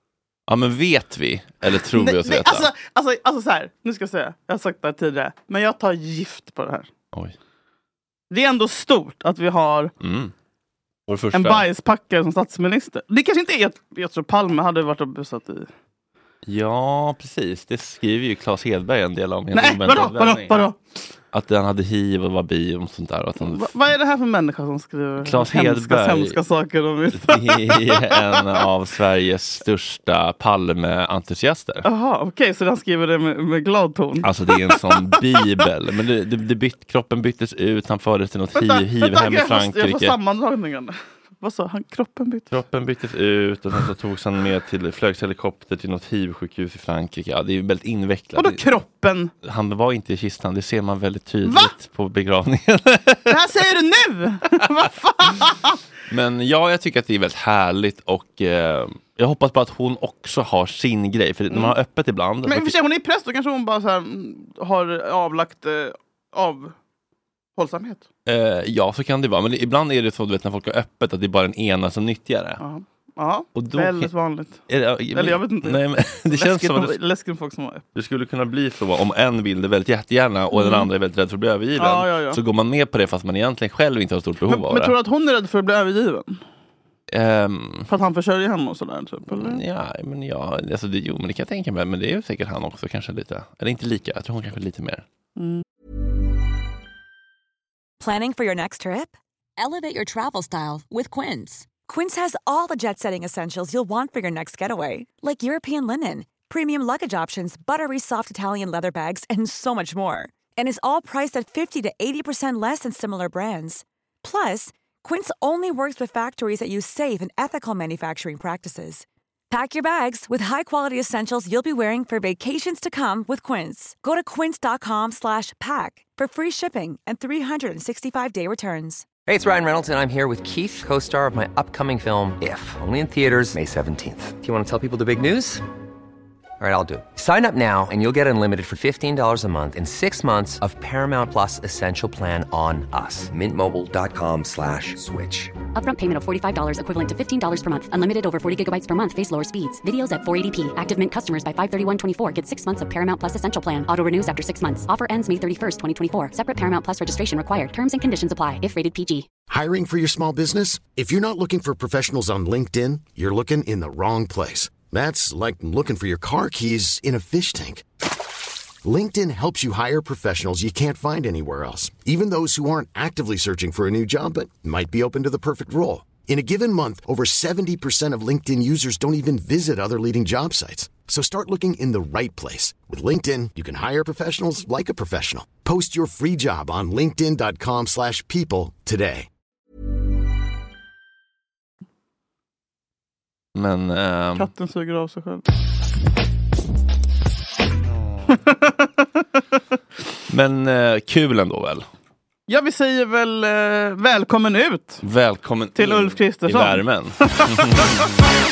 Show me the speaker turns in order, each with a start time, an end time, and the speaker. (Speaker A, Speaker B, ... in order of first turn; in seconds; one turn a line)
Speaker A: 0.5-2.7
Speaker B: 1.9-6.9
Speaker B: 8.3-9.9
Speaker A: 10.0-10.3
Speaker A: 11.1-11.6
Speaker B: 11.3-15.7
Speaker A: 16.4-20.6
Speaker B: 19.5-20.8
Speaker A: 21.3-23.7
Speaker B: 23.4-28.2
Speaker A: 25.2-26.4
Speaker A: 27.1-31.8
Speaker B: 31.8-34.7
Speaker A: 34.2-40.1
Speaker B: 38.6-42.5
Speaker A: 42.5-48.6
Speaker B: 48.4-49.3
Speaker A: 49.4-53.3
Speaker B: 51.4-51.7
Speaker B: 53.3-55.8
Speaker A: 56.1-62.7
Speaker B: 61.5-61.7
Speaker B: 62.5-66.7
Speaker B: 67.6-68.0
Speaker A: 68.2-72.6
Speaker B: 72.6-77.8
Speaker A: 73.5-74.1
Speaker A: 74.7-77.0
Speaker A: 77.9-84.9
Speaker B: 80.5-80.9
Speaker B: 81.8-82.4
Speaker B: 84.5-86.4
Speaker A: 87.1-87.9
Speaker B: 87.9-89.6
Speaker A: 89.3-95.0
Speaker B: 95.4-95.6
Speaker C: 98.0-129.1
Speaker D: 129.2-135.6
Speaker D: 136.6-145.5
Speaker E: 145.7-159.3
Speaker F: 159.5-167.8
Speaker F: 168.8-189.3
Speaker A: 193.5-194.5
Speaker B: 194.4-195.4
Speaker A: 197.9-198.3
Speaker B: 198.3-198.9
Speaker A: 200.3-201.9
Speaker B: 202.5-205.0
Speaker A: 205.0-208.2
Speaker B: 205.7-207.9